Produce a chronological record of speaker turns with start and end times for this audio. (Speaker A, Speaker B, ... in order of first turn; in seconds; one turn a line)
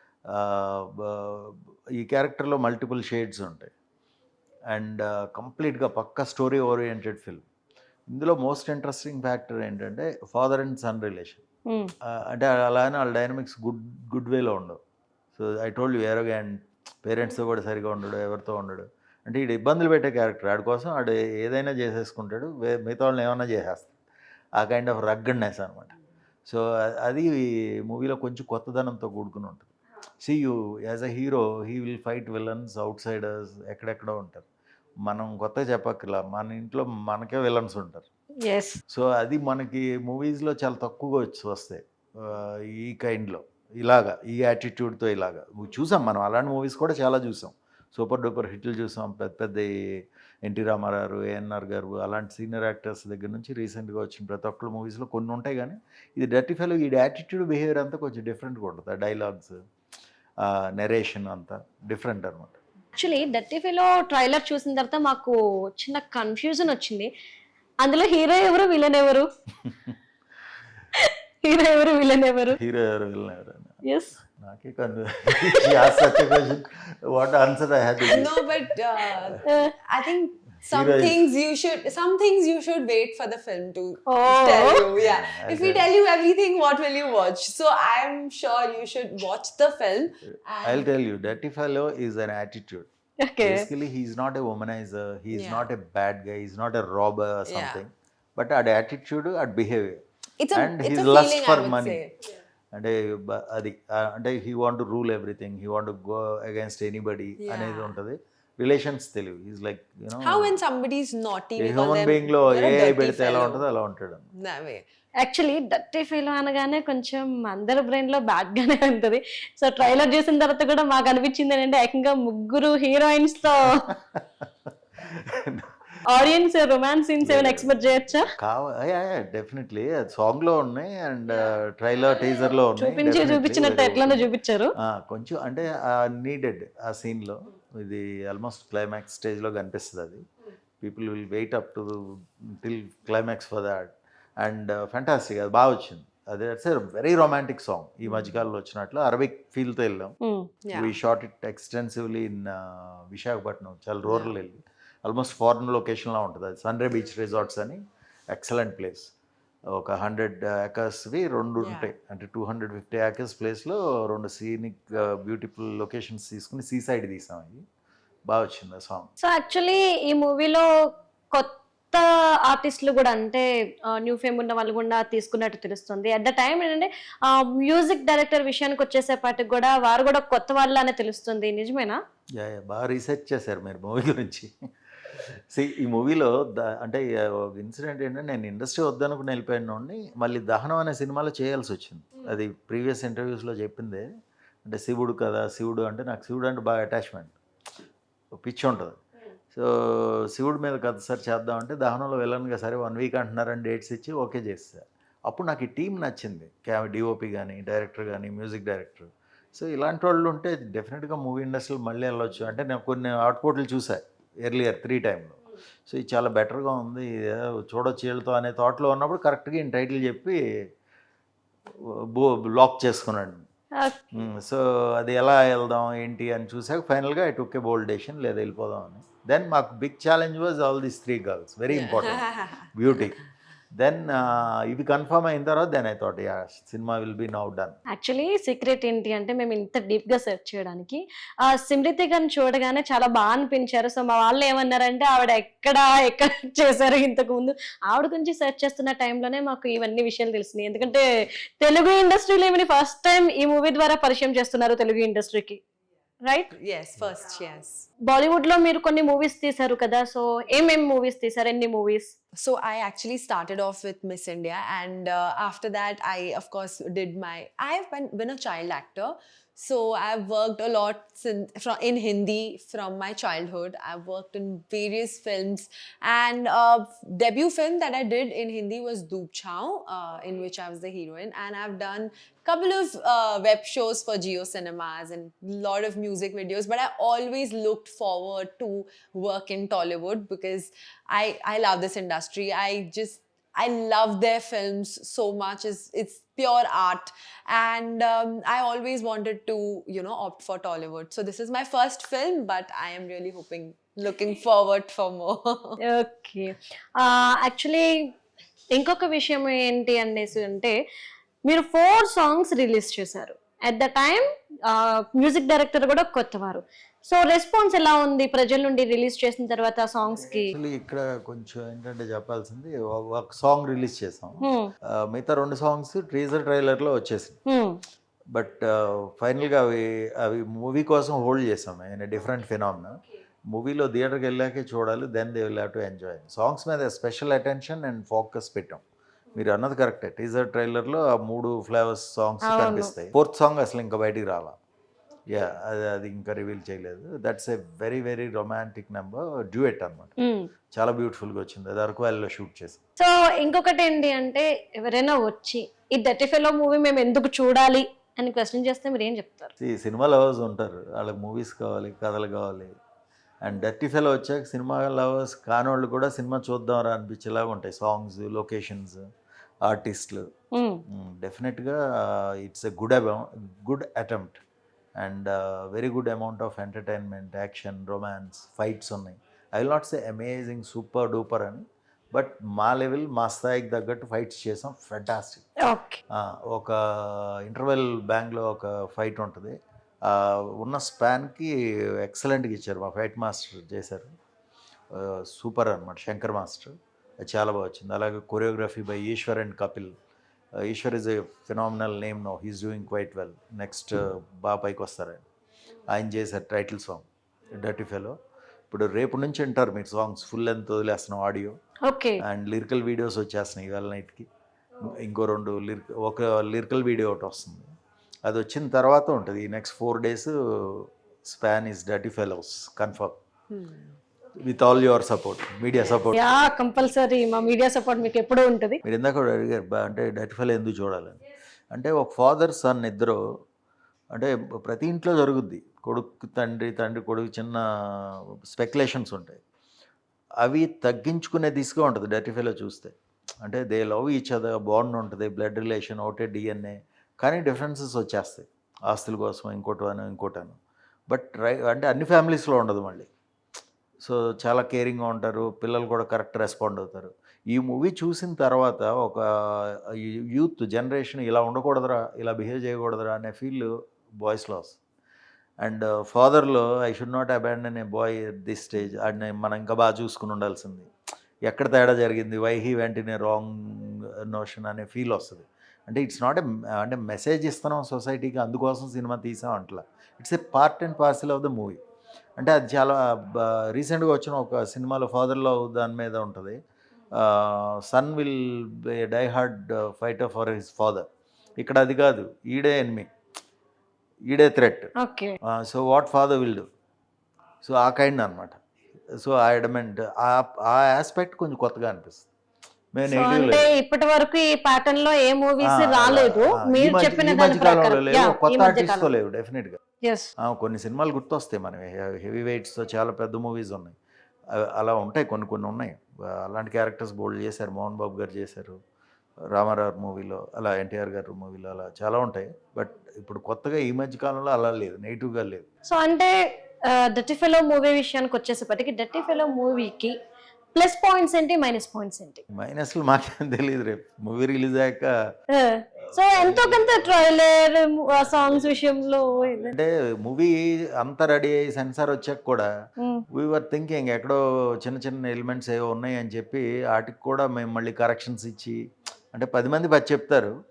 Speaker A: 0.3-3.7
Speaker A: 4.7-7.4
Speaker A: 8.1-11.4
Speaker B: 11.7-11.9
Speaker A: 12.0-14.8
Speaker A: 15.3-23.9
Speaker A: 24.6-25.9
Speaker A: 26.4-29.7
Speaker A: 30.2-34.5
Speaker A: 35.0-38.1
Speaker B: 38.4-38.8
Speaker A: 38.9-59.6
Speaker A: 60.4-62.6
Speaker B: 63.0-67.1
Speaker B: 67.8-69.3
Speaker B: 70.9-72.6
Speaker A: 72.6-78.4
Speaker B: 73.8-74.2
Speaker B: 75.4-76.2
Speaker C: 78.1-90.9
Speaker B: 79.4-79.7
Speaker A: 80.7-81.2
Speaker B: 84.1-84.9
Speaker A: 84.9-85.9
Speaker A: 90.6-92.9
Speaker B: 93.2-93.7
Speaker A: 93.4-100.0
Speaker C: 95.3-95.7
Speaker C: 97.5-97.8
Speaker C: 100.4-102.1
Speaker A: 100.5-102.0
Speaker A: 102.7-110.6
Speaker C: 107.4-108.0
Speaker C: 110.2-113.6
Speaker A: 111.6-114.3
Speaker C: 114.3-114.8
Speaker B: 115.2-123.9
Speaker A: 123.9-126.0
Speaker B: 126.1-128.3
Speaker A: 127.2-140.2
Speaker B: 132.8-134.7
Speaker A: 140.8-150.1
Speaker B: 150.2-150.5
Speaker C: 150.6-150.9
Speaker A: 150.7-159.1
Speaker C: 154.1-154.3
Speaker A: 159.7-167.6
Speaker C: 161.6-161.9
Speaker A: 168.3-169.1
Speaker B: 169.2-170.7
Speaker B: 171.3-182.0
Speaker A: 182.4-184.5
Speaker A: 185.1-194.1
Speaker A: 194.6-197.3
Speaker A: 198.4-199.0
Speaker A: 199.5-220.4
Speaker A: 221.7-223.4
Speaker A: 224.1-233.2
Speaker C: 231.7-232.7
Speaker A: 233.7-237.8
Speaker B: 237.9-251.1
Speaker B: 251.6-255.6
Speaker B: 256.2-256.5
Speaker C: 256.5-257.8
Speaker B: 258.1-262.1
Speaker C: 262.4-305.8
Speaker B: 305.8-308.1
Speaker B: 308.7-310.7
Speaker B: 311.4-320.5
Speaker A: 320.3-327.4
Speaker B: 324.4-324.7
Speaker B: 327.5-327.8
Speaker A: 328.3-338.8
Speaker A: 339.3-344.6
Speaker B: 342.4-342.9
Speaker A: 345.3-350.1
Speaker B: 350.2-350.5
Speaker A: 350.7-352.8
Speaker B: 353.0-359.5
Speaker A: 359.6-362.7
Speaker A: 363.4-369.0
Speaker A: 369.6-370.3
Speaker B: 370.5-370.8
Speaker A: 370.9-374.4
Speaker A: 375.0-385.5
Speaker B: 385.6-386.0
Speaker A: 386.1-394.1
Speaker A: 394.9-399.9
Speaker A: 400.5-405.2
Speaker A: 405.9-408.1
Speaker A: 408.7-411.6
Speaker B: 411.8-412.2
Speaker A: 412.2-414.3
Speaker A: 414.8-417.7
Speaker A: 418.2-423.2
Speaker C: 423.5-424.0
Speaker A: 424.4-426.3
Speaker C: 425.7-426.0
Speaker B: 426.1-428.8
Speaker A: 428.8-431.2
Speaker A: 431.7-433.2
Speaker A: 434.1-439.4
Speaker A: 440.4-453.1
Speaker A: 454.0-464.8
Speaker A: 465.6-470.9
Speaker A: 471.4-481.8
Speaker A: 482.4-486.6
Speaker A: 487.1-491.1
Speaker A: 491.6-493.1
Speaker A: 494.2-496.6
Speaker B: 495.0-495.4
Speaker A: 497.6-498.6
Speaker A: 499.1-502.3
Speaker A: 502.9-503.8
Speaker B: 503.1-509.1
Speaker A: 505.6-509.8
Speaker B: 510.0-510.3
Speaker A: 510.4-514.0
Speaker A: 514.5-518.8
Speaker A: 519.4-525.6
Speaker B: 525.9-530.1
Speaker B: 530.7-532.4
Speaker A: 532.5-535.3
Speaker B: 535.5-539.7
Speaker A: 536.2-537.1
Speaker A: 539.6-542.7
Speaker B: 543.0-543.2
Speaker A: 543.3-550.5